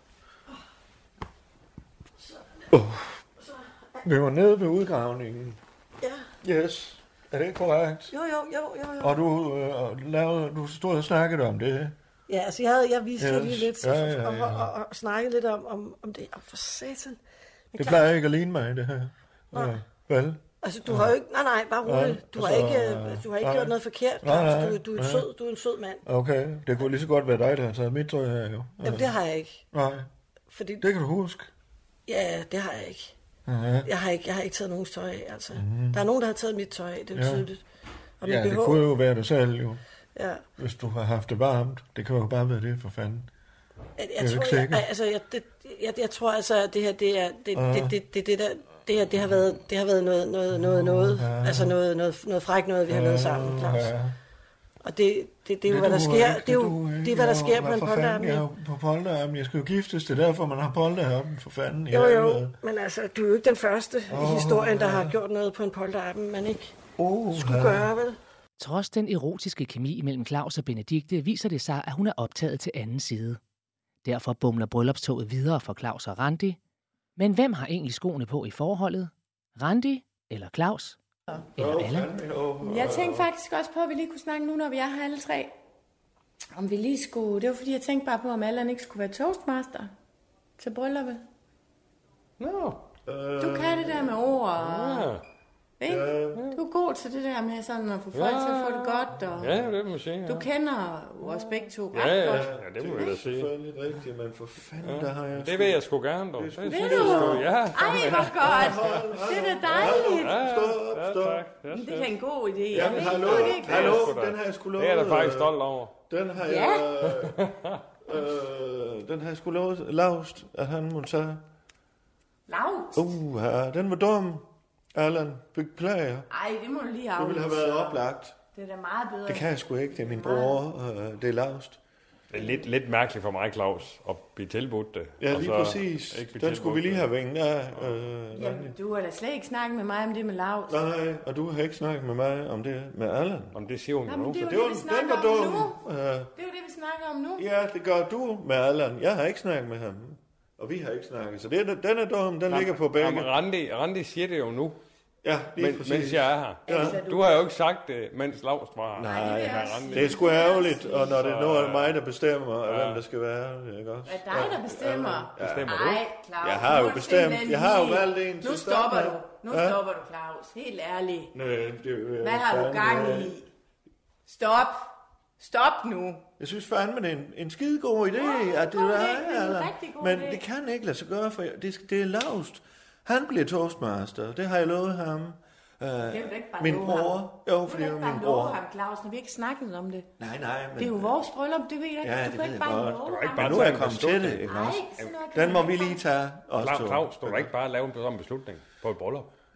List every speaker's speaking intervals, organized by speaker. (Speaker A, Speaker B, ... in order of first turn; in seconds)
Speaker A: 2.2-2.7, 3.4-4.0, 6.0-6.3, 8.1-9.2, 12.3-17.2, 17.7-18.1, 19.5-19.8, 20.6-26.1, 28.8-29.6, 30.5-30.9, 32.1-33.1, 33.9-37.6, 38.2-38.9, 40.1-40.4, 44.0-53.9, 54.8-58.5, 61.9-66.8, 67.3-68.2
Speaker B: 2.7-3.2, 4.0-5.6, 6.4-8.1, 9.0-12.0, 13.2-14.7, 17.8-21.1, 21.9-25.3, 26.1-29.1, 29.7-30.1, 30.8-31.5, 33.5-33.9, 35.5-36.0, 37.1-37.5, 38.2-39.8, 40.6-43.3, 44.2-44.9, 47.5-48.0, 50.5-51.8, 52.9-54.2, 55.6-62.5, 64.1-65.2, 67.0-67.9, 81.6-83.3, 93.1-94.2, 95.9-96.5, 102.2-105.8, 106.4-111.5, 112.7-115.5, 116.1-117.4, 118.0-121.4, 122.9-126.3, 127.2-128.4, 129.3-131.8, 135.2-138.8, 140.7-143.6, 144.4-146.3, 147.4-153.3, 155.2-157.0, 158.9-165.8, 166.4-169.8, 171.3-173.4, 176.4-188.6, 190.2-191.2, 192.0-197.5
Speaker C: 68.6-73.4, 74.0-76.6, 77.2-81.0, 81.6-82.1
Speaker D: 82.6-85.5, 86.5-89.9, 90.6-91.2, 93.4-95.1, 95.8-99.6, 100.3-102.5, 106.7-110.4, 111.7-113.9, 116.5-116.8, 122.5-123.1, 126.3-128.0, 128.5-130.6, 138.3-140.8, 144.1-145.8, 146.4-147.4, 156.7-157.5, 159.1-161.2, 164.1-171.3, 172.2-173.5, 174.3-176.3, 178.1-180.4, 186.0-190.1, 190.8-193.8, 194.4-196.0
Speaker E: 92.4-92.8, 94.6-95.2, 98.1-100.5, 101.2-103.5, 104.8-109.0, 109.7-112.1, 112.8-115.9, 117.1-117.8, 132.3-137.1, 143.5-144.4, 152.5-154.8, 155.6-160.3, 161.1-162.0, 162.6-163.0, 165.4-166.0, 193.0-195.2, 196.6-199.3